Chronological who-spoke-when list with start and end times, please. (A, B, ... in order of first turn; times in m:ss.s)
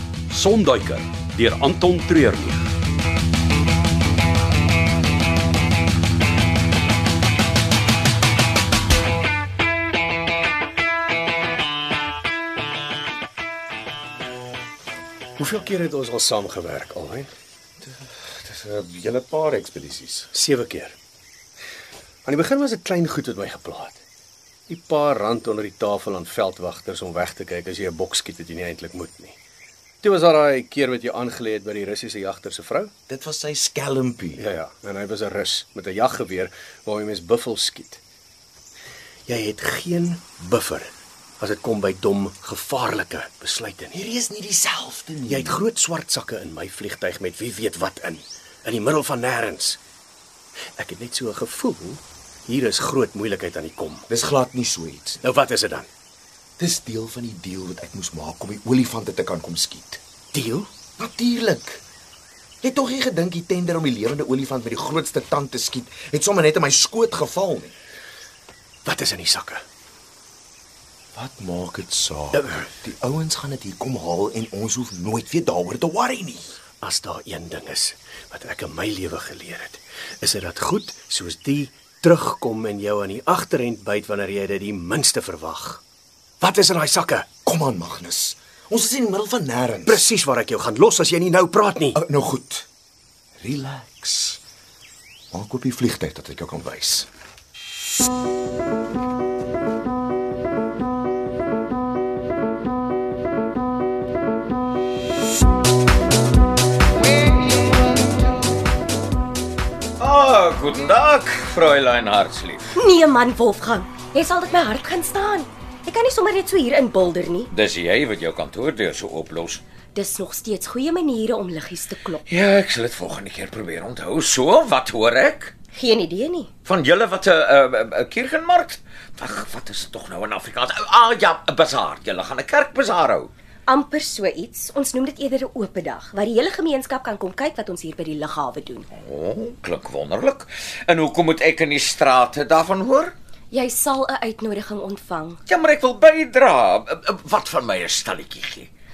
0:00.3-0:02.6 A
0:15.4-0:17.3 B
0:17.8-0:20.3 C
0:20.3-0:21.0 B
0:22.3-0:24.0 B
0:24.7-0:29.4 B
0:30.0-0:32.9 B
0:33.1-0:34.4 C
0:34.4-0:38.0 B
0:39.3-0:44.0 B
0:43.9-0:45.6 C
0:45.3-0:49.8 B
0:50.8-0:54.1 B
0:54.1-0:55.2 C
0:55.2-0:55.9 B
0:56.6-1:00.0 C
1:00.3-1:00.7 B
1:01.0-1:01.8 C
1:02.6-1:07.8 C
1:08.8-1:09.6 B
1:11.2-1:16.6 C
1:12.3-1:12.7 B
1:16.8-1:25.8 B
1:26.4-1:27.3 B
1:27.4-1:30.0 C
1:29.9-1:32.0 B
1:32.0-1:32.7 C
1:33.4-1:34.4 C
1:35.3-1:37.1 C
1:50.0-1:52.8 D
1:52.8-1:57.5 E
1:57.5-1:59.6 D
2:00.0-2:02.2 E
2:02.3-2:05.5 D
2:05.7-2:06.5 E
2:06.6-2:13.3 D
2:13.7-2:18.9 E
2:18.9-2:23.1 D
2:23.5-2:25.4 E
2:25.5-2:28.7 D